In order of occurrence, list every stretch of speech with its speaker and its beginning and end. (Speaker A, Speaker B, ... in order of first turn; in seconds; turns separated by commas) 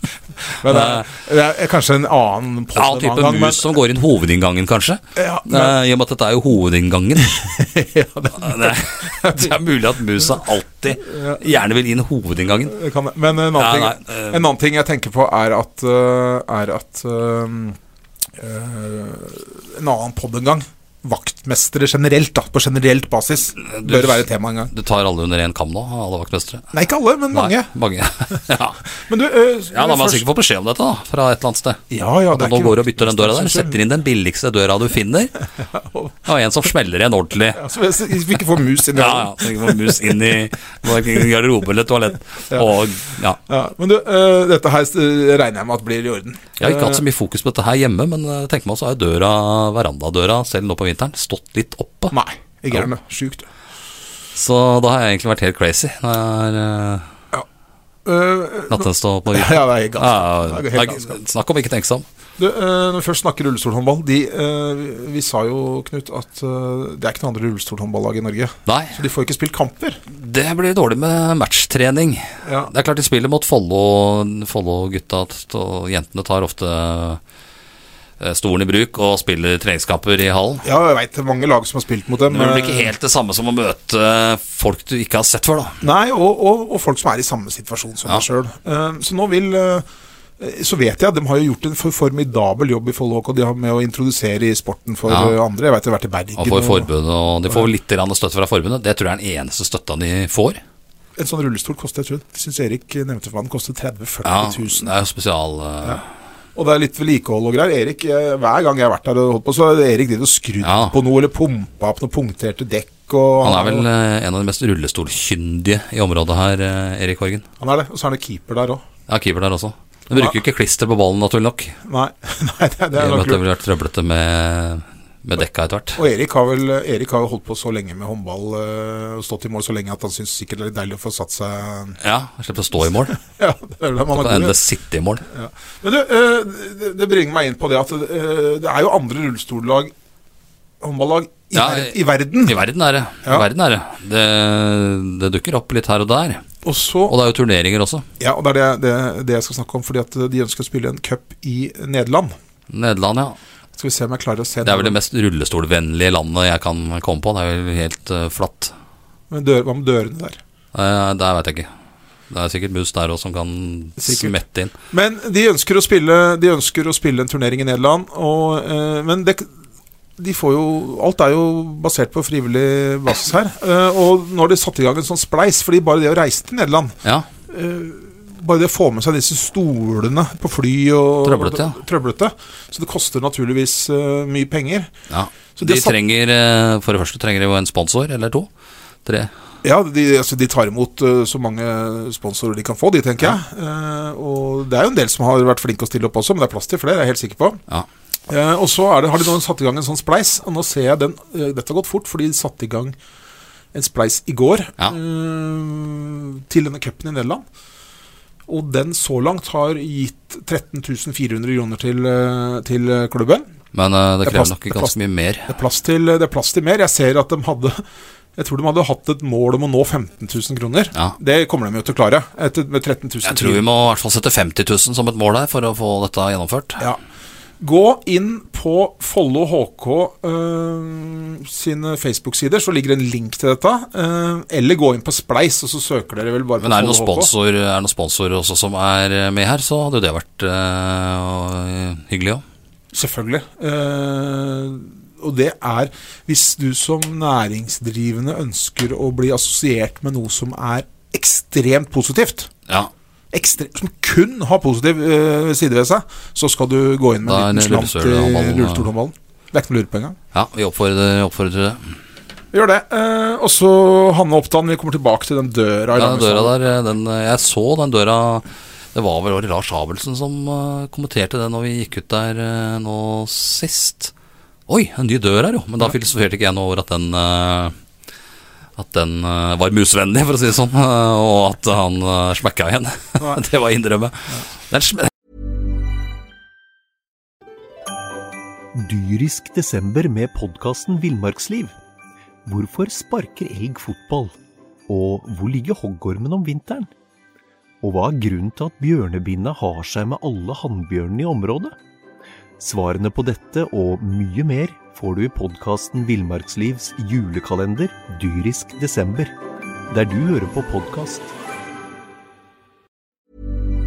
Speaker A: 0.6-3.7, Speaker B: 0.6-1.1, Speaker B: 2.7-7.6, Speaker A: 5.2-5.8, Speaker A: 7.2-9.6, Speaker B: 8.3-12.8, Speaker A: 11.0-11.4, Speaker A: 12.7-17.8, Speaker B: 13.5-14.4, Speaker A: 18.4-24.7, Speaker B: 23.6-26.7, Speaker A: 26.7-27.7, Speaker B: 27.3-28.8, Speaker A: 28.9-30.3, Speaker B: 29.7-35.4, Speaker A: 31.9-33.8, Speaker A: 35.6-36.1, Speaker B: 36.2-37.6, Speaker A: 37.5-40.4, Speaker B: 38.9-43.4, Speaker A: 43.5-47.0, Speaker B: 46.6-52.1, Speaker A: 52.1-53.5, Speaker B: 54.3-57.0, Speaker A: 58.0-61.2, Speaker B: 58.7-62.0, Speaker A: 62.4-70.0, Speaker B: 68.7-69.0, Speaker B: 70.1-77.2, Speaker A: 72.4-72.7, Speaker B: 78.2-80.6, Speaker A: 80.6-82.9, Speaker B: 82.3-85.8, Speaker A: 85.8-89.8, Speaker A: 90.4-96.9, Speaker B: 95.1-95.4, Speaker B: 96.3-100.6, Speaker A: 101.2-104.9, Speaker B: 104.2-106.0, Speaker A: 106.5-113.9, Speaker B: 110.6-110.9, Speaker B: 113.4-117.4, Speaker A: 117.6-118.8, Speaker B: 119.1-121.8, Speaker A: 120.1-120.4, Speaker A: 121.8-123.4, Speaker B: 122.9-126.0, Speaker A: 126.0-132.0, Speaker B: 132.0-133.2, Speaker A: 133.2-134.6, Speaker B: 134.1-135.2, Speaker A: 135.3-139.9, Speaker A: 140.8-142.6, Speaker B: 141.5-146.4, Speaker A: 146.6-147.2, Speaker B: 147.1-148.1, Speaker A: 148.2-152.3, Speaker B: 152.7-153.4, Speaker A: 153.8-155.0, Speaker B: 154.6-158.7, Speaker A: 159.3-160.4, Speaker B: 160.7-161.7, Speaker B: 162.3-164.7, Speaker A: 164.0-164.3, Speaker A: 164.9-169.5, Speaker A: 170.2-176.9, Speaker A: 177.5-184.9, Speaker B: 181.2-181.8, Speaker B: 185.1-188.5, Speaker A: 185.6-185.9, Speaker B: 189.0-189.3, Speaker A: 189.6-197.6, Speaker A: 198.3-202.9, Speaker A: 203.7-207.4, Speaker A: 208.5-213.5, Speaker B: 213.7-215.5, Speaker A: 214.2-214.9, Speaker A: 215.5-217.8, Speaker A: 218.3-223.6, Speaker B: 223.2-226.8, Speaker A: 227.6-237.3, Speaker B: 236.6-242.4, Speaker A: 242.9-252.5, Speaker A: 253.3-260.2, Speaker B: 257.2-258.9, Speaker B: 260.3-262.0, Speaker A: 262.5-266.6, Speaker B: 265.9-274.1, Speaker B: 274.7-277.7, Speaker B: 278.8-285.1, Speaker C: 288.7-291.7, Speaker C: 292.4-294.3, Speaker C: 294.9-296.9, Speaker C: 297.8-301.7, Speaker C: 302.6-309.3, Speaker C: 309.9-311.3